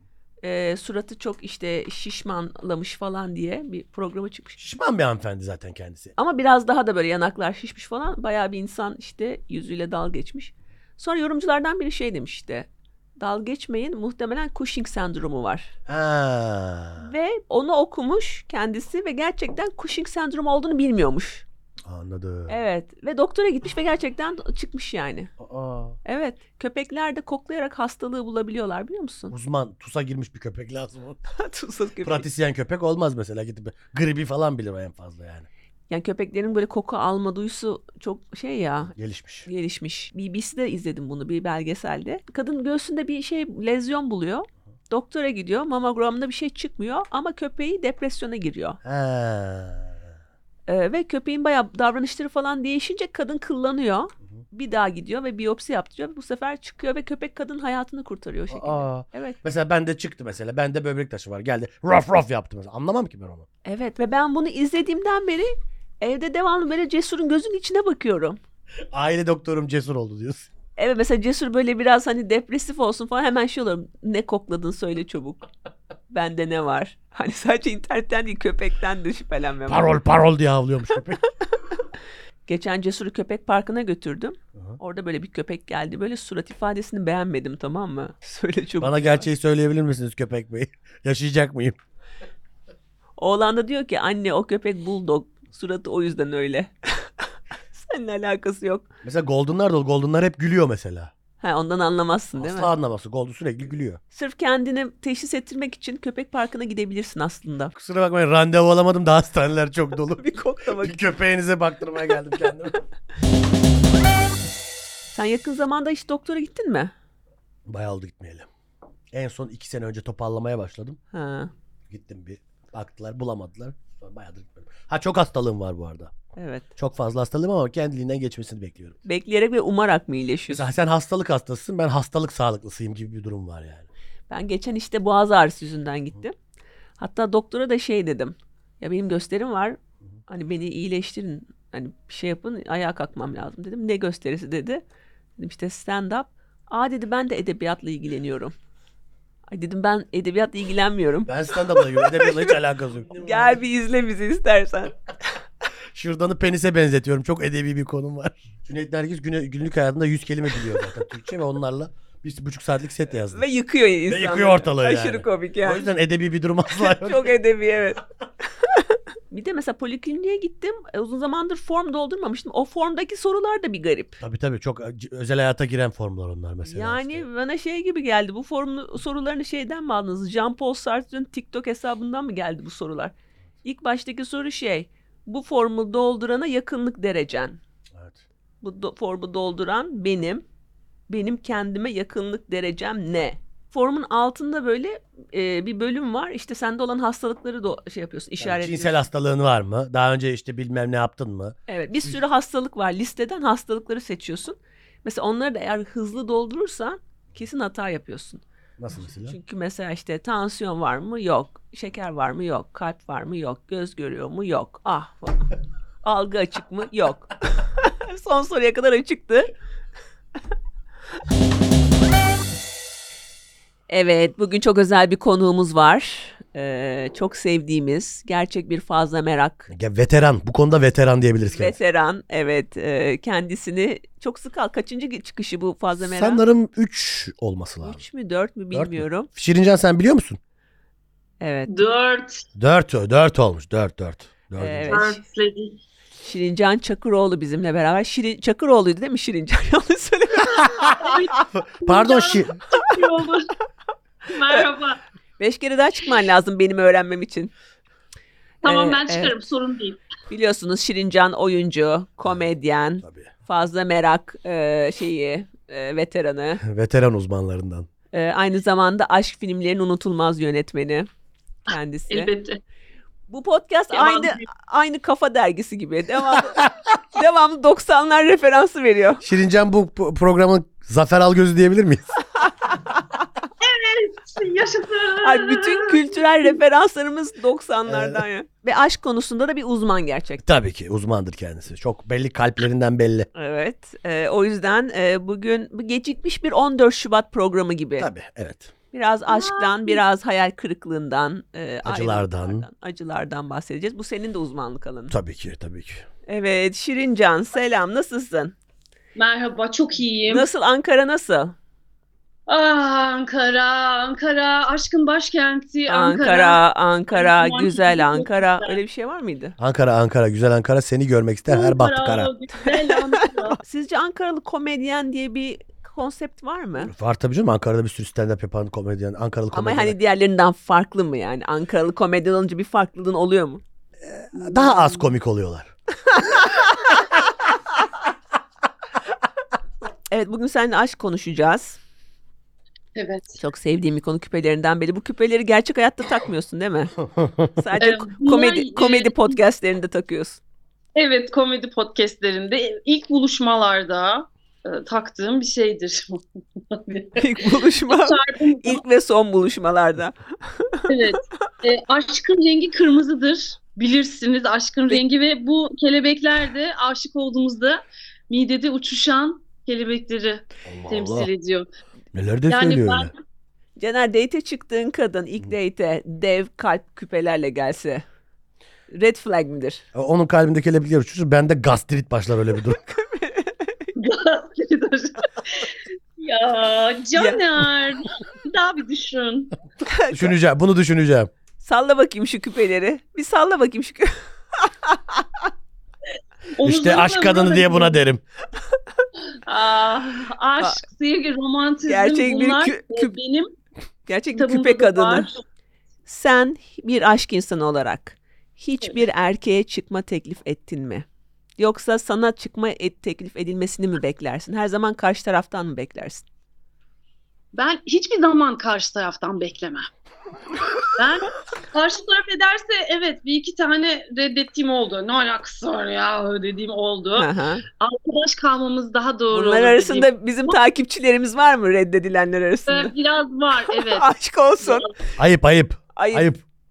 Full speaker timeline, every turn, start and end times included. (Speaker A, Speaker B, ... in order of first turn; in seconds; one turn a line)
Speaker A: 0.4-4.6
Speaker B: 4.6-6.1
Speaker A: 6.2-12.7
Speaker A: 13.2-15.7
Speaker B: 15.9-17.1
Speaker A: 17.0-21.4
Speaker B: 21.8-22.6
Speaker A: 22.5-25.3
Speaker B: 25.4-26.0
Speaker A: 26.1-29.3
Speaker B: 29.3-31.2
Speaker A: 31.3-32.2
Speaker B: 32.0-35.5
Speaker A: 35.9-38.9
Speaker B: 38.9-39.5
Speaker A: 39.5-48.8
Speaker B: 48.8-50.0
Speaker A: 50.7-59.4
Speaker B: 58.5-63.5
Speaker A: 63.6-68.4
Speaker B: 68.9-70.5
Speaker A: 70.8-75.5
Speaker A: 76.1-80.0
Speaker B: 79.7-81.2
Speaker A: 82.5-89.1
Speaker B: 88.8-91.8
Speaker A: 93.2-98.9
Speaker B: 99.0-101.1
Speaker A: 101.4-102.7
Speaker B: 102.4-104.0
Speaker A: 104.1-107.7
Speaker B: 107.8-110.2
Speaker A: 110.2-111.0
Speaker B: 110.8-112.8
Speaker A: 115.1-116.9
Speaker B: 117.7-118.5
Speaker B: 119.1-121.0
Speaker A: 121.1-121.5
Speaker B: 121.9-126.1
Speaker A: 126.4-126.7
Speaker B: 126.8-129.0
Speaker A: 129.1-130.7
Speaker B: 130.5-133.9
Speaker A: 134.3-136.3
Speaker A: 137.0-144.8
Speaker A: 145.4-148.6
Speaker A: 149.5-152.6
Speaker B: 151.3-153.6
Speaker A: 153.2-154.9
Speaker B: 155.9-163.5
Speaker A: 163.3-165.9
Speaker B: 164.1-167.3
Speaker A: 166.8-168.0
Speaker A: 168.6-174.2
Speaker B: 174.2-177.2
Speaker A: 176.7-187.6
Speaker B: 187.9-188.2
Speaker A: 188.6-190.4
Speaker A: 191.1-199.0
Speaker B: 198.4-202.2
Speaker A: 201.7-208.4
Speaker B: 208.8-209.4
Speaker A: 209.2-215.5
Speaker A: 216.0-219.5
Speaker A: 223.9-229.7
Speaker B: 229.7-231.8
Speaker A: 231.5-236.4
Speaker B: 236.0-238.0
Speaker A: 237.8-239.3
Speaker B: 238.7-240.4
Speaker A: 241.4-241.7
Speaker C: 241.7-242.4
Speaker B: 242.6-245.0
Speaker A: 244.6-245.2
Speaker C: 244.9-245.8
Speaker A: 246.2-251.2
Speaker C: 250.6-253.5
Speaker B: 251.8-252.6
Speaker C: 254.3-255.0
Speaker A: 255.4-257.5
Speaker C: 258.6-260.0
Speaker A: 258.6-259.4
Speaker A: 260.3-266.6
Speaker B: 263.0-263.3
Speaker B: 266.6-267.9
Speaker A: 268.1-271.1
Speaker A: 271.7-272.3
Speaker C: 272.1-272.6
Speaker A: 273.3-279.2
Speaker C: 273.9-274.4
Speaker B: 279.2-282.1
Speaker C: 283.6-286.1
Speaker A: 285.2-290.4
Speaker B: 287.9-288.2
Speaker B: 290.4-293.3
Speaker A: 293.4-298.1
Speaker B: 298.0-298.7
Speaker A: 298.9-305.1
Speaker C: 299.3-300.0
Speaker B: 301.8-302.7
Speaker B: 305.1-306.1
Speaker A: 306.3-308.6
Speaker C: 309.2-310.5
Speaker A: 310.3-311.6
Speaker C: 312.5-316.6
Speaker A: 315.9-319.6
Speaker C: 317.1-318.8
Speaker B: 319.6-322.3
Speaker C: 321.5-323.6
Speaker A: 323.2-326.9
Speaker B: 326.8-330.0
Speaker A: 329.5-333.6
Speaker B: 334.0-335.7
Speaker C: 334.4-335.0
Speaker A: 336.1-336.6
Speaker A: 340.1-341.8
Speaker C: 343.0-343.4
Speaker A: 343.4-347.0
Speaker B: 347.0-347.5
Speaker A: 347.6-350.4
Speaker C: 347.8-349.4
Speaker C: 350.9-358.8
Speaker A: 357.2-361.0
Speaker C: 360.9-371.7
Speaker B: 370.6-371.3
Speaker B: 372.1-373.1
Speaker C: 372.5-373.1
Speaker A: 373.8-378.0
Speaker A: 378.9-379.9
Speaker B: 379.9-382.8
Speaker A: 382.9-383.9
Speaker C: 384.0-389.5
Speaker A: 389.9-390.3
Speaker B: 390.1-391.3
Speaker A: 391.6-395.3
Speaker C: 396.6-398.0
Speaker B: 396.6-398.2
Speaker C: 399.5-403.5
Speaker A: 401.9-403.1
Speaker A: 404.1-405.3
Speaker C: 404.4-405.4
Speaker A: 406.1-411.1
Speaker A: 411.6-416.2
Speaker C: 417.5-419.9
Speaker C: 420.9-430.6
Speaker A: 427.2-427.6
Speaker A: 429.3-432.9
Speaker C: 432.7-434.1
Speaker A: 433.7-434.9
Speaker C: 434.6-434.9
Speaker B: 435.2-436.4
Speaker A: 436.0-436.3